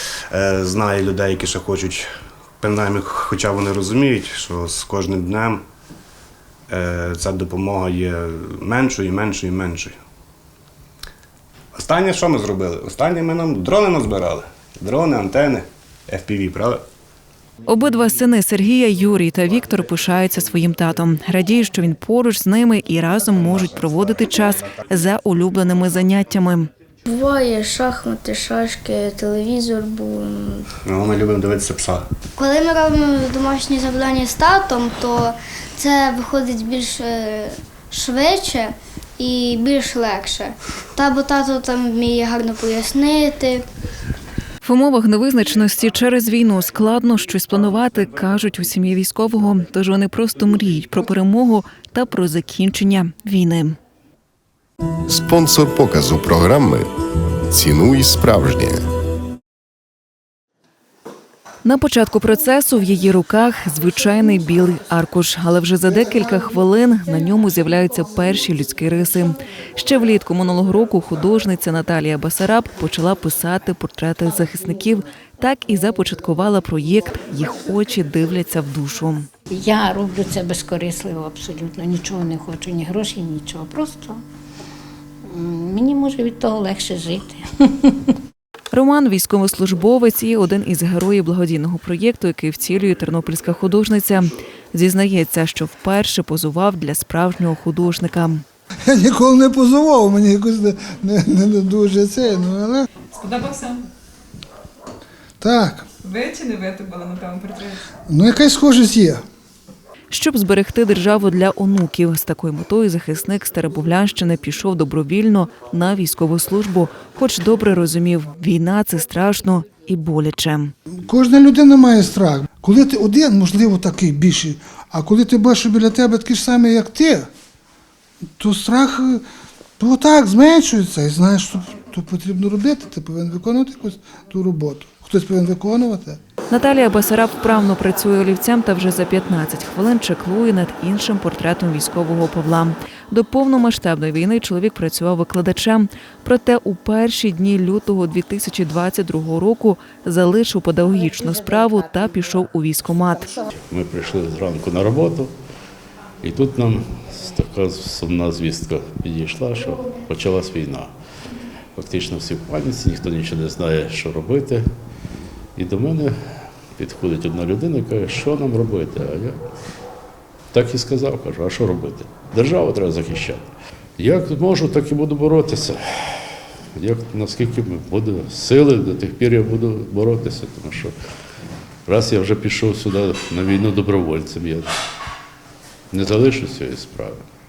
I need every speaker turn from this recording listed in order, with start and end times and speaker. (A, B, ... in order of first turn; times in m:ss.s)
0:00.3-0:02.1 A
0:02.6-0:05.6 A
0:06.7-0:10.0 A
0:11.8-0:16.8 A
0:17.7-0:26.7 B
0:27.0-0:30.7 C
0:30.8-0:32.0 A
0:32.4-0:43.7 C
0:44.6-0:53.8 B
0:55.1-0:56.9 D
0:57.5-0:58.8 D
1:01.6-1:19.3 B
1:19.5-1:24.2 E
1:25.3-1:28.2 E
1:28.7-1:38.4 B
1:38.9-1:42.9 F
1:43.1-1:43.8 G
1:45.4-1:45.9 F
1:46.0-1:47.8 G
1:48.1-1:49.2 F
1:50.1-2:00.7 B
2:01.0-2:07.3 F
2:08.4-2:09.2 F
2:09.8-2:16.2 F
2:16.5-2:33.4 B
2:33.5-2:35.3 H
2:36.2-2:40.9 H
2:41.8-2:44.7 H
2:45.6-2:49.4 H
2:50.5-2:56.2 H
2:56.8-3:00.9 H
3:01.9-3:04.7 H
3:05.9-3:07.2 H